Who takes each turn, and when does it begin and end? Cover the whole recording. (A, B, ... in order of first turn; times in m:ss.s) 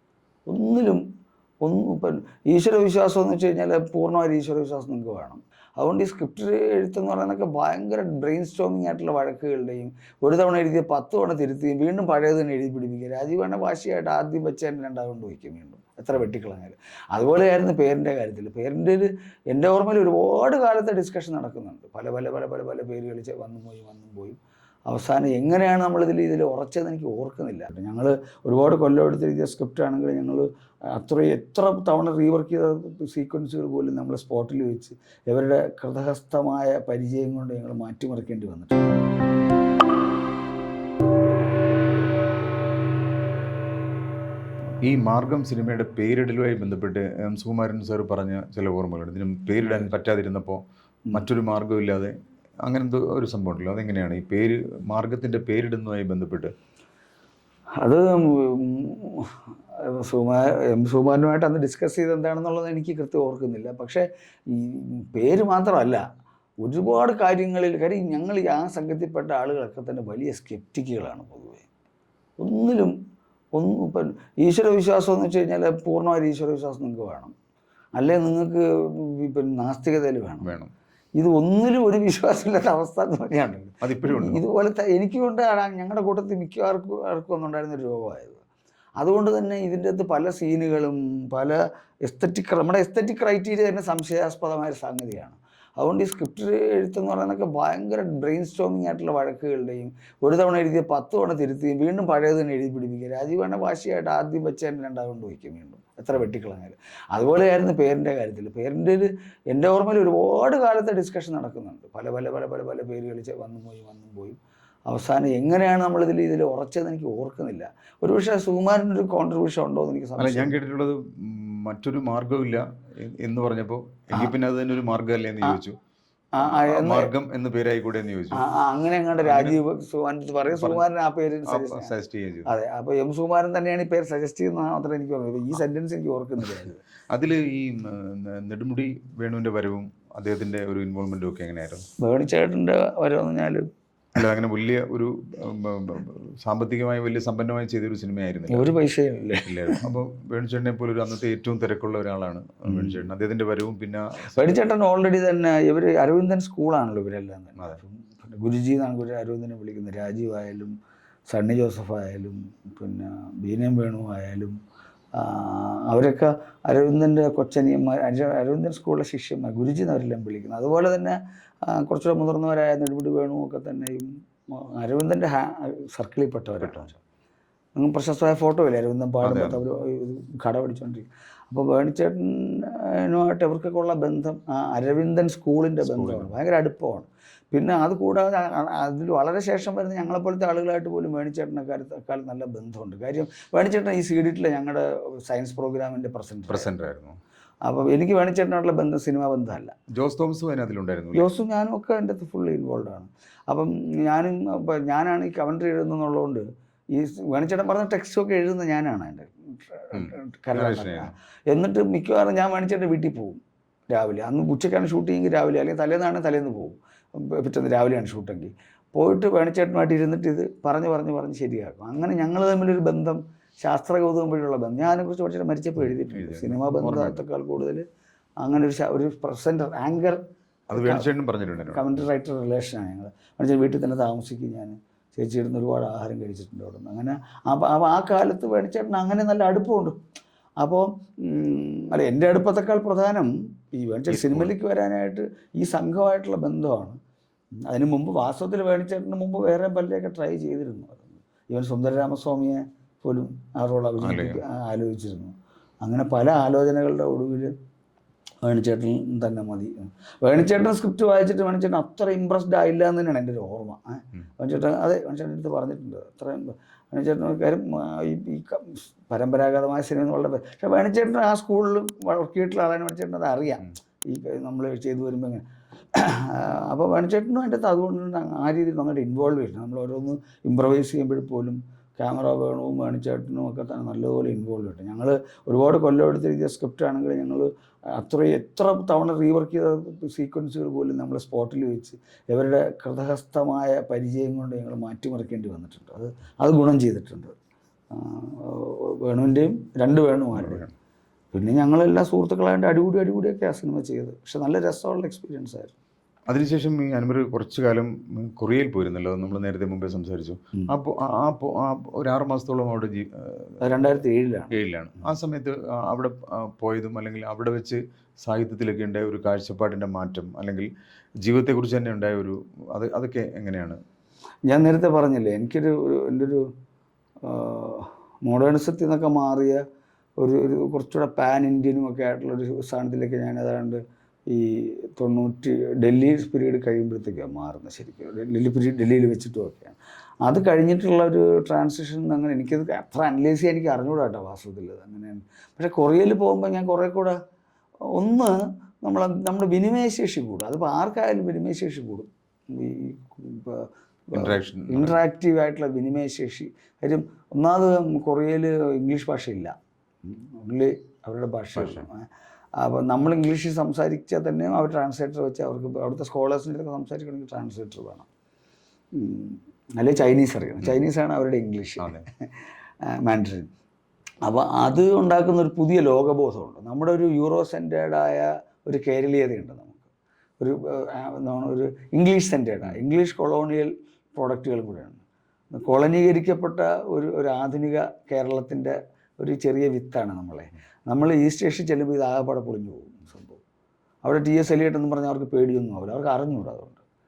0:00.5-0:01.0 A
0:01.6-0:38.8 A
0:44.8-0:50.6 B
0:51.1-0:52.1 B
0:52.6-0:56.5 B
0:57.8-1:06.0 A
1:06.6-1:11.7 A
1:12.4-1:12.9 A
1:13.5-1:17.3 A
1:18.0-1:20.5 A
1:20.4-1:20.7 B
1:21.2-1:28.4 A
1:23.8-1:24.4 B
1:29.0-2:00.5 A
2:00.2-2:05.8 B
2:06.3-2:07.1 A
2:06.4-2:08.4 B
2:08.3-2:11.9 A
2:09.2-2:09.6 B
2:10.5-2:10.8 B
2:11.5-2:12.5 B
2:12.4-2:16.8 A
2:17.1-2:21.8 B
2:22.0-2:23.6 A
2:24.2-2:28.7 B
2:28.5-2:29.8 A
2:29.4-2:34.4 B
2:32.7-2:33.0 A
2:34.3-2:40.7 A
2:41.3-2:44.6 A
2:45.2-2:56.9 A
2:56.6-2:56.9 B
2:57.8-3:16.7 A
2:59.2-2:59.6 B
3:05.8-3:06.3 B
3:16.5-3:17.2 B
3:17.6-3:19.7 A
3:19.9-3:21.3 B
3:21.1-3:33.4 A
3:29.9-3:31.1 B
3:33.9-3:47.8 A
3:46.1-3:47.2 B
3:48.4-3:50.2 A
3:50.7-3:52.0 B
3:50.7-3:51.1 A
3:51.7-4:00.0 A
4:00.6-4:07.0 A
4:04.1-4:04.5 B
4:07.7-4:17.5 A
4:14.0-4:14.4 B
4:18.4-4:57.3 A
4:57.9-5:00.6 A
5:00.3-5:00.7 B
5:01.3-5:05.7 A
5:06.3-5:13.9 B
5:13.6-5:14.6 A
5:14.5-5:20.7 B
5:21.2-5:23.8 B
5:24.5-5:26.5 A
5:27.2-5:29.6 A
5:30.2-5:47.2 A
5:47.9-5:59.5 A
5:54.1-5:55.0 B
6:00.0-6:02.1 A
6:01.6-6:01.9 B
6:02.6-6:08.1 A
6:08.9-6:12.3 A
6:11.8-6:12.0 B
6:12.9-6:13.5 A
6:14.2-6:25.0 A
6:25.5-6:33.4 A
6:34.0-6:36.8 A